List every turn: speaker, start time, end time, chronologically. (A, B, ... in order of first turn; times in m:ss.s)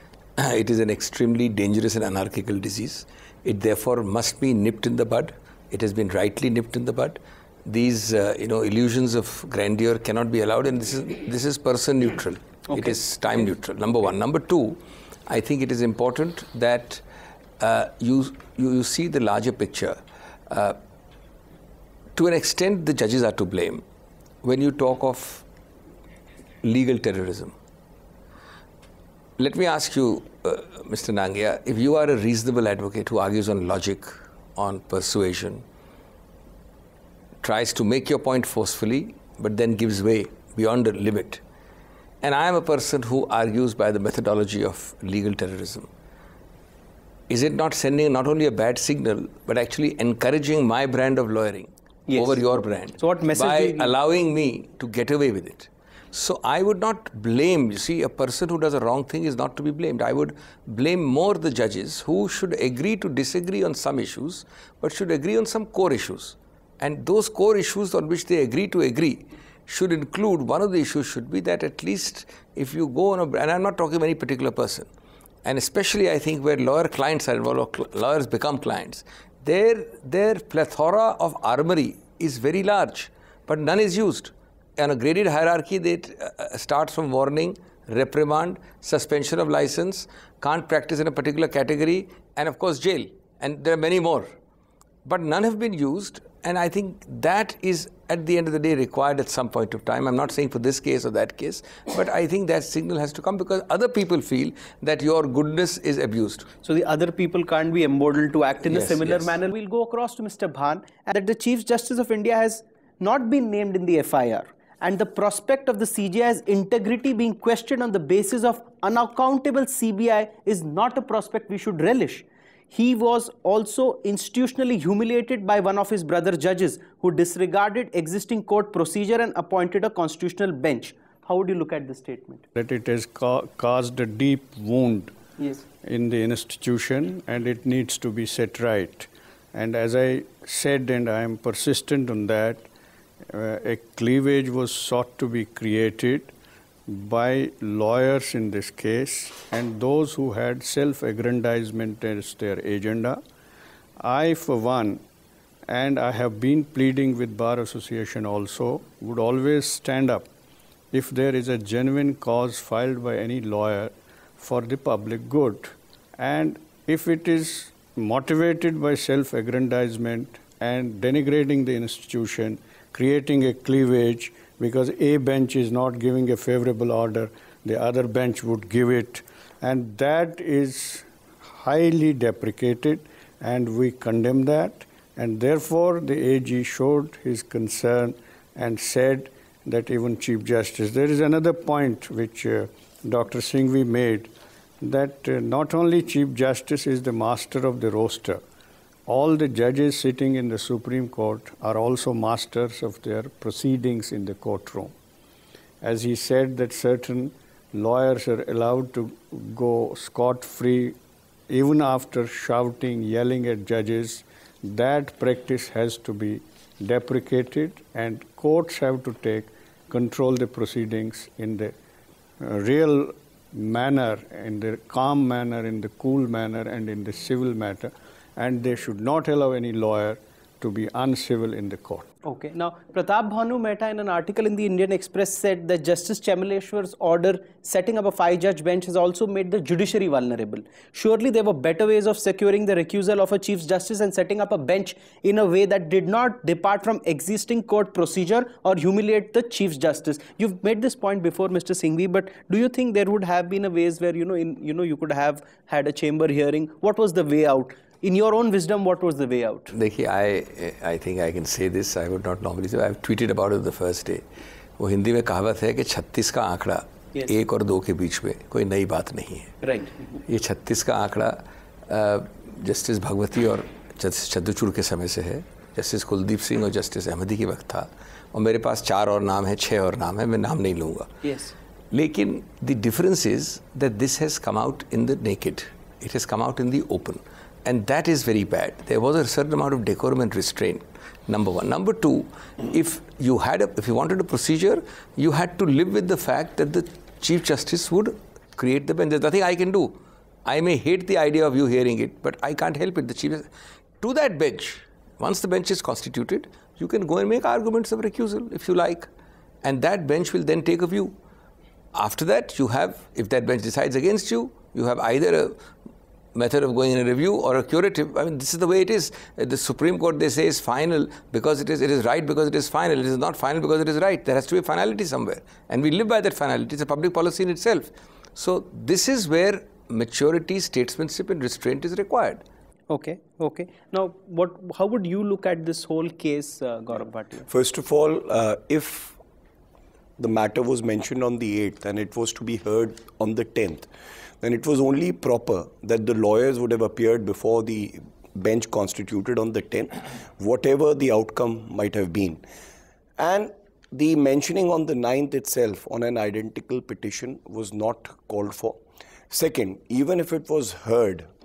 0:00.4-0:17.0 A
0:17.6-0:20.0 A
0:20.5-0:20.8 A
0:22.2-0:23.8 A
0:24.4-0:25.4 A
0:26.6-0:27.5 A
0:29.4-0:35.6 A
0:37.4-0:41.4 A
0:42.2-0:45.9 A
0:47.3-1:14.9 A
0:52.1-0:52.4 B
0:53.0-0:53.9 B
1:15.4-1:34.3 A
1:35.0-1:46.5 A
1:46.6-2:12.4 B
1:48.6-1:49.3 A
2:12.6-2:15.1 C
2:15.4-2:15.6 B
2:15.8-2:22.6 C
2:23.3-2:26.3 C
2:26.9-2:33.2 C
2:34.0-2:35.0 C
2:35.7-2:40.3 C
2:40.9-3:18.4 C
3:19.1-3:24.9 C
3:25.8-3:31.0 C
3:31.5-3:41.7 C
3:42.4-3:52.1 C
3:52.2-4:19.7 B
4:19.7-4:24.2 A
4:24.8-4:29.6 A
4:29.6-4:30.0 B
4:30.2-4:41.1 A
4:41.2-4:41.5 B
4:41.9-5:03.4 A
5:04.0-5:09.1 A
5:09.6-5:11.2 A
5:11.9-5:15.6 A
5:16.3-5:32.4 A
5:32.9-5:37.5 B
5:37.5-5:39.2 D
5:40.2-5:43.9 D
5:44.4-5:52.4 D
5:53.2-5:58.8 D
5:59.3-6:01.3 D